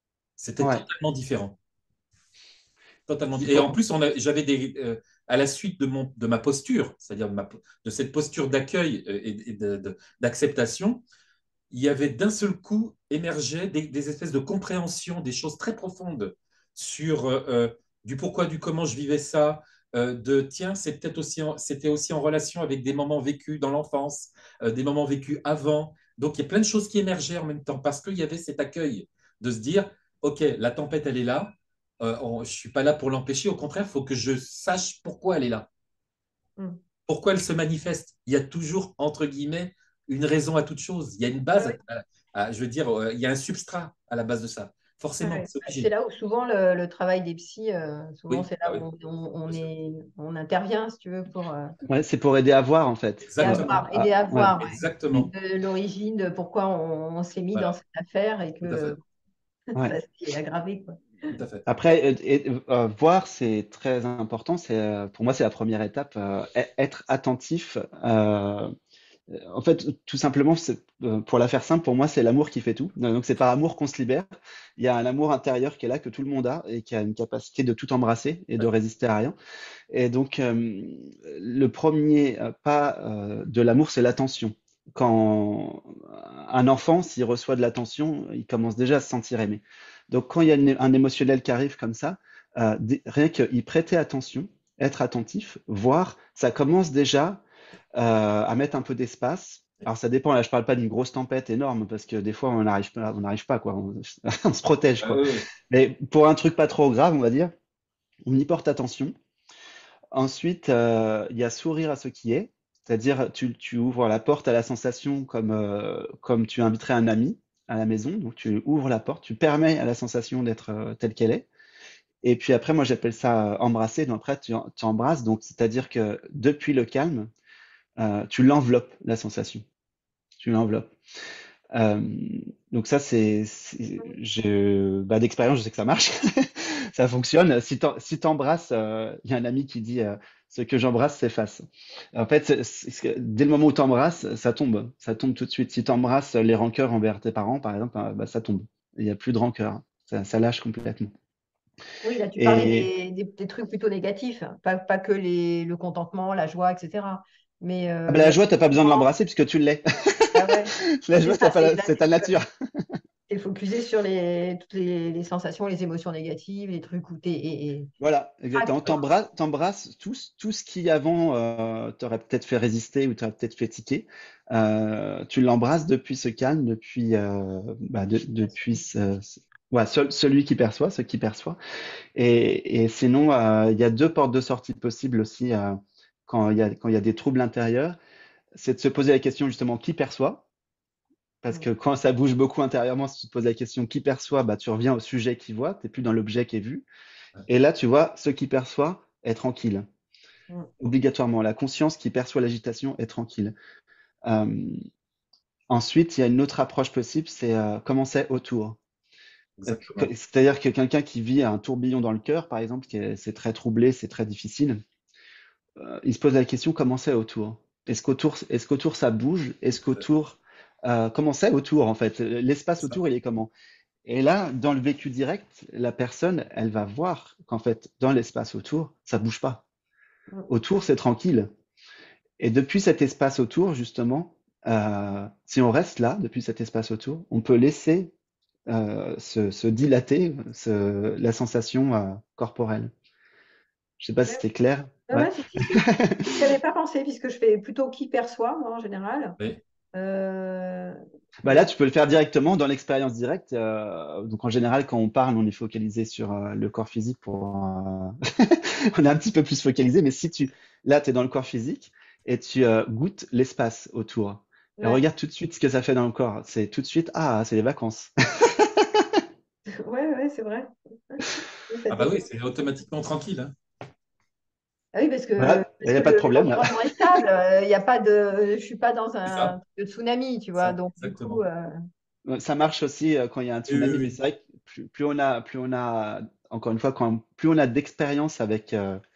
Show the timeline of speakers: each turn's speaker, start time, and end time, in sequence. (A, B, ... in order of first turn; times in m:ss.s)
0:00.4-0:01.6 A
0:03.1-0:11.0 A
0:03.4-0:03.7 B
0:11.7-0:35.7 A
0:37.1-0:45.9 A
0:45.2-0:51.7 C
0:48.3-0:48.8 A
0:51.9-0:54.5 B
0:53.3-0:53.8 A
0:53.4-0:59.0 C
0:54.6-0:55.3 A
0:58.6-0:59.0 A
0:59.7-1:01.3 C
1:01.3-1:01.6 A
1:01.7-1:08.7 B
1:09.3-1:14.3 B
1:14.8-1:19.4 B
1:19.9-1:37.4 B
1:38.0-1:47.5 B
1:45.0-1:45.5 A
1:48.3-1:49.1 B
1:50.1-2:01.5 B
2:02.2-2:07.3 B
2:08.0-2:09.6 B
2:10.4-2:10.9 B
2:11.7-2:31.1 B
2:32.0-2:39.1 C
2:32.4-2:32.9 B
2:38.1-2:42.5 B
2:40.3-2:42.3 C
2:43.3-2:47.9 C
2:48.0-3:01.6 B
2:48.5-2:49.0 C
2:58.4-2:58.8 C
3:02.2-3:08.0 B
3:08.6-3:10.5 B
3:11.4-3:16.8 B
3:17.5-3:19.8 B
3:20.8-3:23.5 B
3:24.2-3:24.8 B
3:25.7-3:28.8 B
3:29.6-3:30.1 A
3:29.7-3:34.8 B
3:35.8-3:43.5 B
3:44.1-3:49.6 B
3:50.5-3:51.5 B
3:52.4-3:58.1 B
3:58.7-4:02.9 B
4:04.0-4:06.4 B
4:05.1-4:09.4 C
4:10.0-4:11.7 C
4:11.4-4:29.2 B
4:29.7-4:32.2 C
4:31.9-4:33.5 A
4:35.0-4:41.7 C
4:35.4-4:37.1 B
4:39.2-4:39.6 A
4:40.6-4:41.4 A
4:42.3-4:49.0 B
4:43.7-4:44.1 A